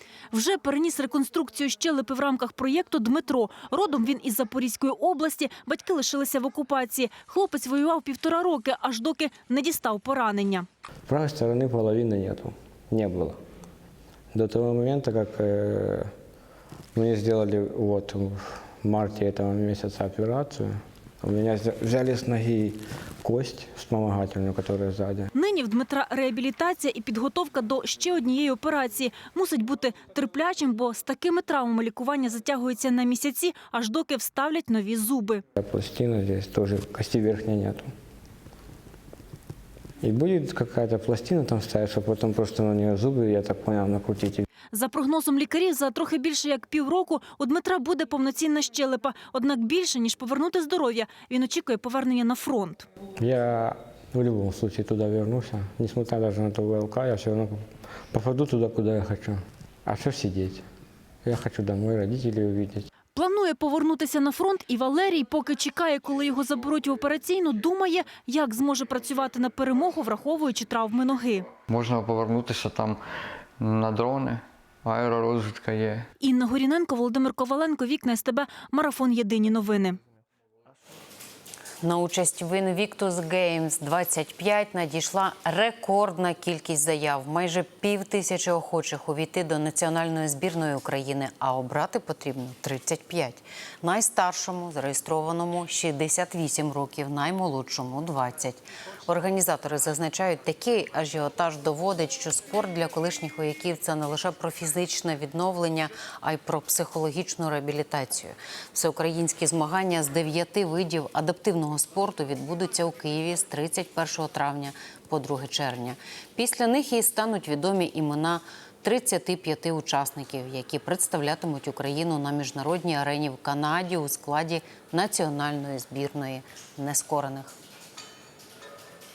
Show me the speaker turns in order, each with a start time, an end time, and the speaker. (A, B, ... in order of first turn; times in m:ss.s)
0:00.3-0:10.7 A
0:11.1-0:12.4 B
0:14.4-0:15.9 B
0:17.0-0:20.6 B
0:21.3-0:22.6 B
0:23.2-0:25.3 B
0:25.4-0:35.4 A
0:35.6-0:37.8 B
0:40.0-0:44.4 B
0:44.7-0:52.9 A
0:53.2-0:57.6 B
0:58.1-0:59.2 B
0:59.9-1:00.5 B
1:01.3-1:02.9 B
1:03.2-1:11.5 A
1:11.7-1:13.0 C
1:13.6-1:16.1 C
1:16.2-1:20.0 A
1:21.8-2:07.5 D